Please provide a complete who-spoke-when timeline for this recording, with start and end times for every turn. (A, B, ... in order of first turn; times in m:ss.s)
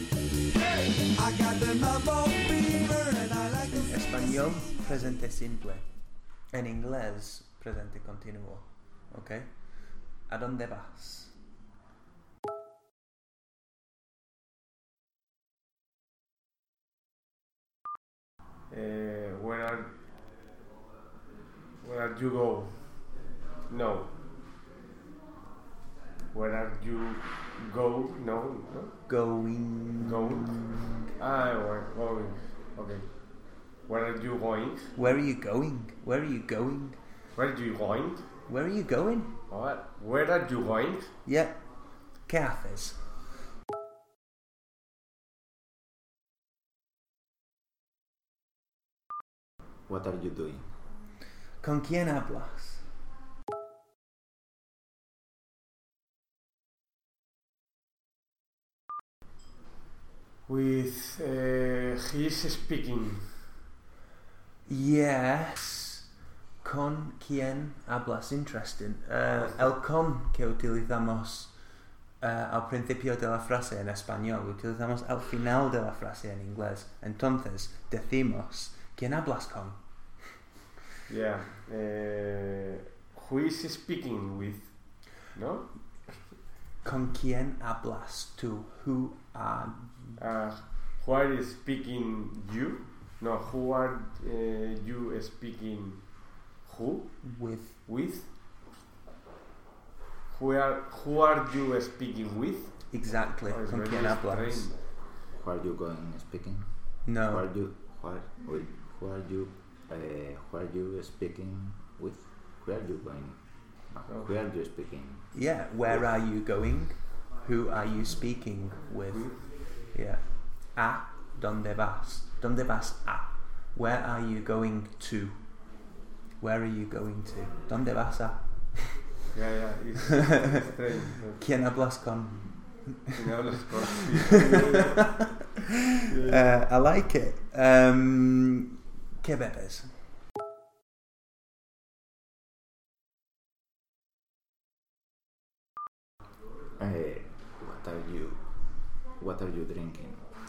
0:01.2-0:05.9 A
0:06.5-0:09.7 A
0:10.2-0:11.4 A
0:18.7-0:19.9 B
0:21.8-0:22.8 B
0:23.7-0:24.1 B
0:26.3-0:28.9 B
0:29.1-0:31.1 A
0:30.0-0:35.0 B
0:34.9-0:37.0 A
0:37.3-0:38.2 B
0:38.5-0:39.4 A
0:39.5-0:41.1 B
0:41.2-0:41.6 A
0:42.3-0:43.0 A
0:49.9-0:50.7 C
0:51.6-0:52.8 A
1:00.5-1:03.4 B
1:04.7-1:06.0 A
1:06.6-1:11.5 A
1:12.2-1:19.8 A
1:21.1-1:26.2 B
1:26.8-1:30.2 A
1:30.2-1:38.3 B
1:37.2-1:37.8 A
1:40.3-1:44.8 B
1:42.9-1:44.7 A
1:45.3-1:56.1 C
1:47.0-1:47.4 A
1:55.3-2:05.8 A
1:59.1-1:59.4 B
2:06.4-2:09.0 A
2:09.3-2:11.4 B
2:11.4-2:13.2 A
2:13.2-2:15.2 B
2:14.7-2:15.2 A
2:16.1-2:16.6 B
2:16.2-2:19.9 A
2:26.8-2:28.4 C
2:29.1-2:30.2 C